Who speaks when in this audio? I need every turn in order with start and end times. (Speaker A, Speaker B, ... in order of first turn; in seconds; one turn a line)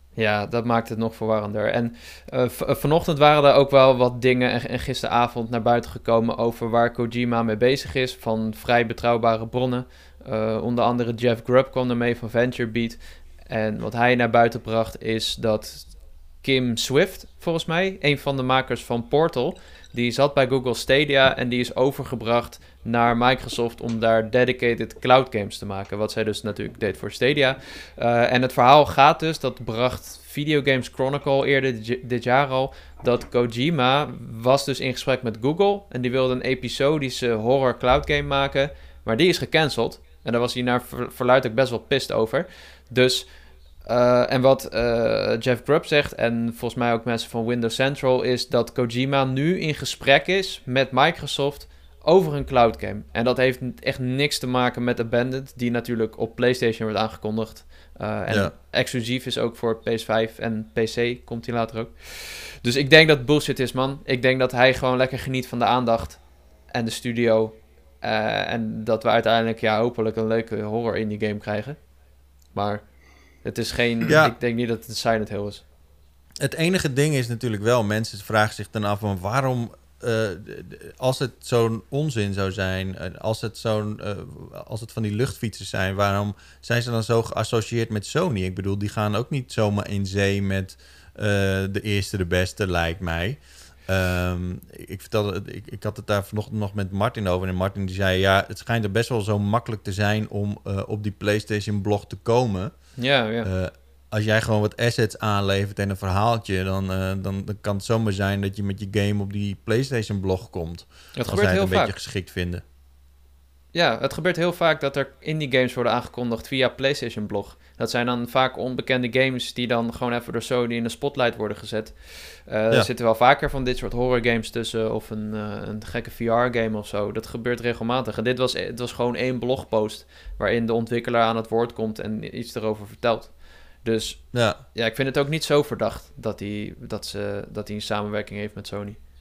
Speaker A: 0.2-43.3
Speaker A: 43.9-71.8
Speaker A: 72.5-72.8
Speaker A: 73.4-75.6
Speaker B: 74.1-74.3
Speaker B: 76.4-102.8
Speaker A: 103.0-103.5
Speaker B: 103.4-112.6
Speaker A: 111.2-111.9
Speaker A: 113.7-139.0
Speaker B: 134.3-134.6